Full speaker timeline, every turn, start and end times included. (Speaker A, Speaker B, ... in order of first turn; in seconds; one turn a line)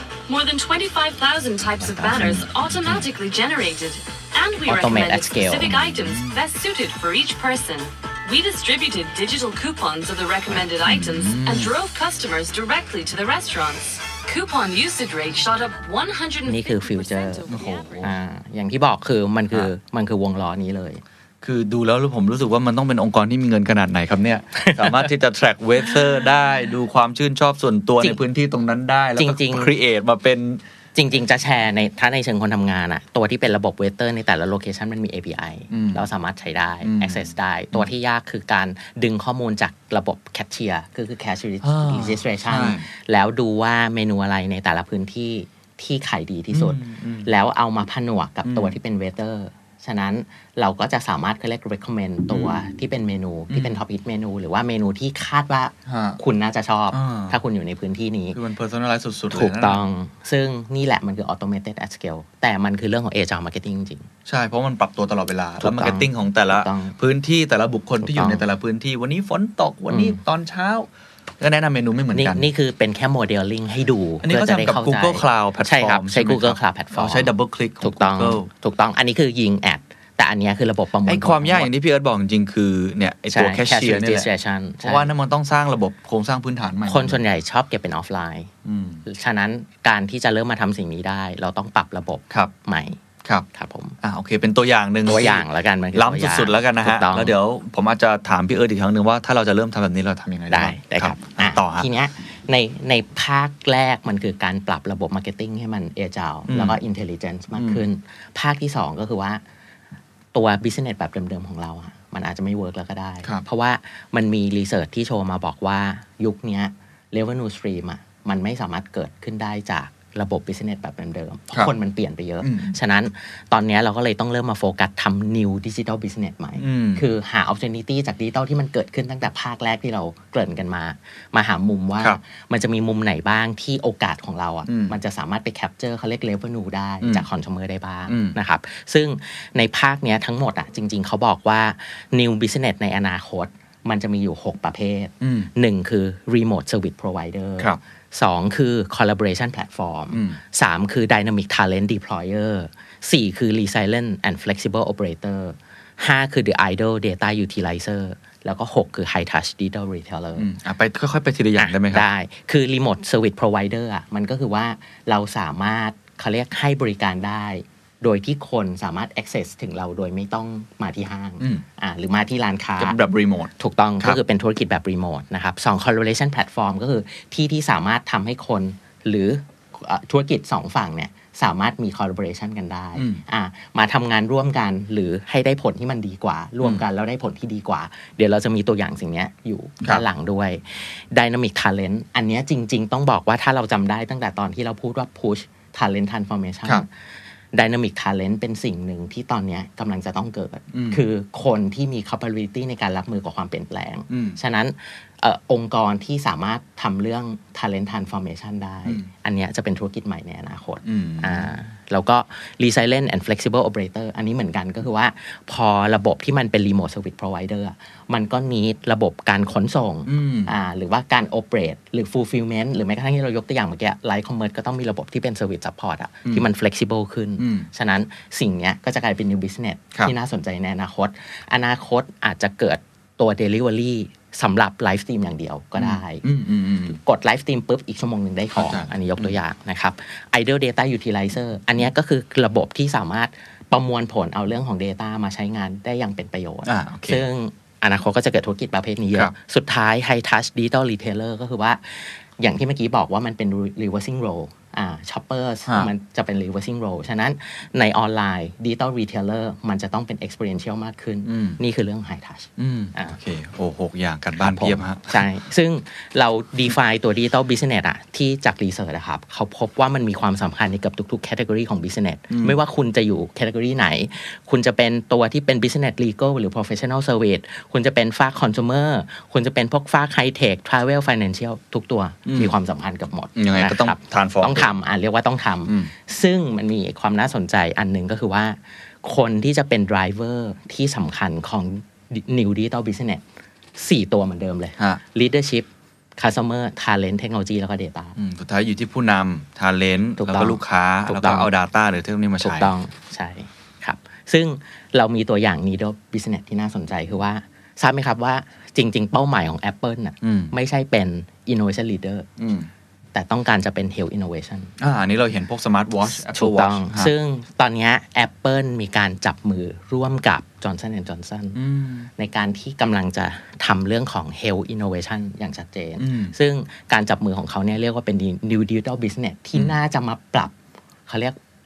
Speaker A: 0.3-18.1
Speaker B: 1.9-2.4
Speaker C: 2.0-3.0
Speaker B: 4.7-5.8
Speaker C: 5.6-6.4
Speaker C: 10.5-11.7
Speaker B: 16.4-17.5
Speaker C: 17.5-18.1
Speaker B: 18.0-21.0
Speaker C: 21.4-30.6
Speaker B: 24.6-25.1
Speaker B: 29.2-29.7
Speaker B: 30.9-58.4
Speaker C: 35.7-36.1
Speaker C: 36.8-37.9
Speaker C: 41.6-42.9
Speaker C: 46.5-47.3
Speaker C: 48.5-48.8
Speaker C: 52.3-52.6
Speaker C: 53.5-53.8
Speaker C: 55.9-56.2
Speaker C: 56.9-57.4
Speaker C: 58.3-59.8
Speaker B: 59.3-64.1
Speaker C: 64.3-70.9
Speaker B: 65.6-67.0
Speaker B: 68.0-68.5
Speaker B: 69.9-70.2
Speaker C: 71.4-72.5
Speaker B: 72.1-81.7
Speaker C: 74.2-78.5
Speaker C: 81.0-84.3
Speaker B: 83.3-85.1
Speaker C: 84.8-87.2
Speaker B: 86.9-88.5
Speaker C: 88.7-89.0
Speaker B: 89.0-93.0
Speaker B: 93.5-94.0
Speaker C: 94.0-101.9
Speaker B: 95.1-97.3
Speaker B: 100.5-109.4
Speaker C: 106.5-106.8
Speaker C: 107.6-107.8
Speaker B: 110.3-160.5
Speaker C: 122.4-122.8
Speaker C: 126.6-127.0
Speaker C: 134.7-134.9
Speaker C: 138.1-138.4
Speaker C: 145.2-145.5
Speaker C: 150.1-150.4
Speaker C: 160.4-162.1
Speaker B: 161.6-173.0
Speaker C: 172.8-174.2
Speaker B: 173.6-196.9
Speaker C: 183.0-183.2
Speaker B: 197.5-236.2
Speaker C: 200.7-201.0
Speaker C: 204.1-204.4
Speaker C: 210.8-211.5
Speaker C: 220.1-220.5
Speaker C: 227.4-227.7
Speaker C: 235.8-237.0
Speaker B: 236.9-263.2
Speaker C: 238.6-239.3
Speaker C: 246.7-247.2
Speaker C: 261.3-261.6
Speaker C: 262.6-265.3
Speaker B: 264.4-293.2
Speaker C: 272.3-272.6
Speaker C: 282.3-282.5
Speaker C: 283.4-284.7
Speaker B: 293.8-298.2
Speaker C: 298.2-302.7
Speaker B: 300.2-301.5
Speaker B: 302.4-312.3
Speaker C: 310.2-310.5
Speaker C: 312.4-312.7
Speaker B: 313.1-314.7
Speaker C: 314.8-317.1
Speaker B: 316.3-321.6
Speaker C: 321.6-322.1
Speaker B: 322.2-330.5
Speaker C: 326.0-326.4
Speaker B: 331.1-331.4